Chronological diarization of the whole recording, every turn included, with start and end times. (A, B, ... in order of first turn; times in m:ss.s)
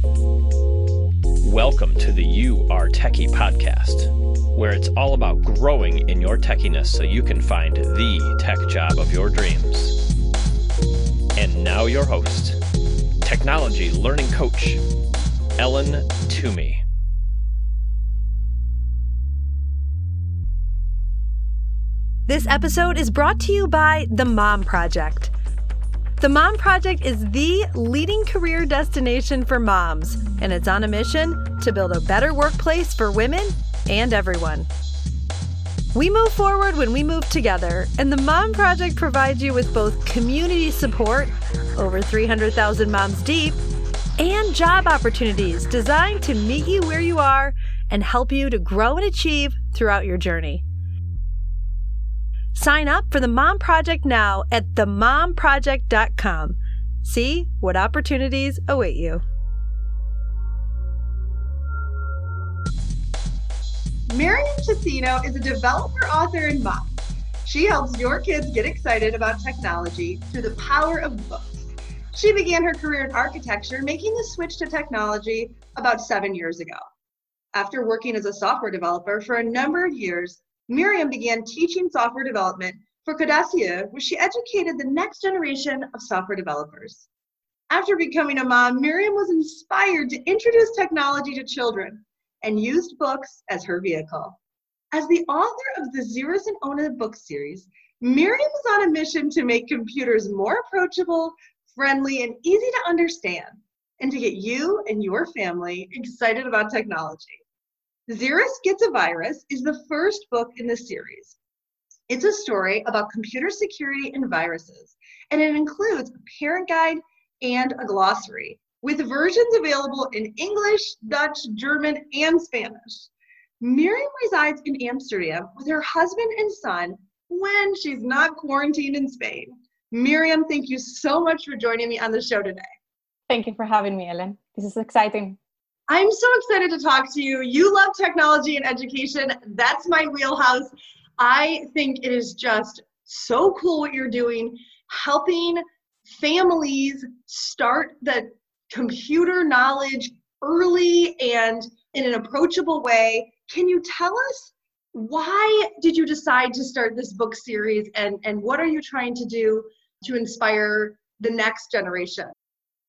0:01.4-0:10.0 A
0:11.3-0:12.6 A
0:13.2-0:14.8 A
0:15.6-0:16.8 A
0:22.3-0:25.3 B
0:26.2-0:34.6 B
0:26.2-0:33.4 C
0:34.0-0:34.6 C
0:36.0-0:43.5 B
0:36.0-0:41.2 C
0:42.2-0:43.5 C
0:44.2-0:50.6 B
0:45.7-0:46.0 C
0:46.9-0:48.4 C
0:49.5-0:50.4 C
0:52.5-0:56.5 B
0:55.6-0:56.4 C
0:57.0-0:59.2 B
0:57.7-0:59.0 C
1:04.1-1:06.9 C
1:07.4-1:16.8 C
1:17.5-1:27.1 C
1:27.7-1:34.4 C
1:34.9-1:47.4 C
1:48.1-1:51.4 C
1:52.1-2:03.1 C
2:03.6-2:12.6 C
2:13.3-2:15.4 D
2:15.9-2:42.3 C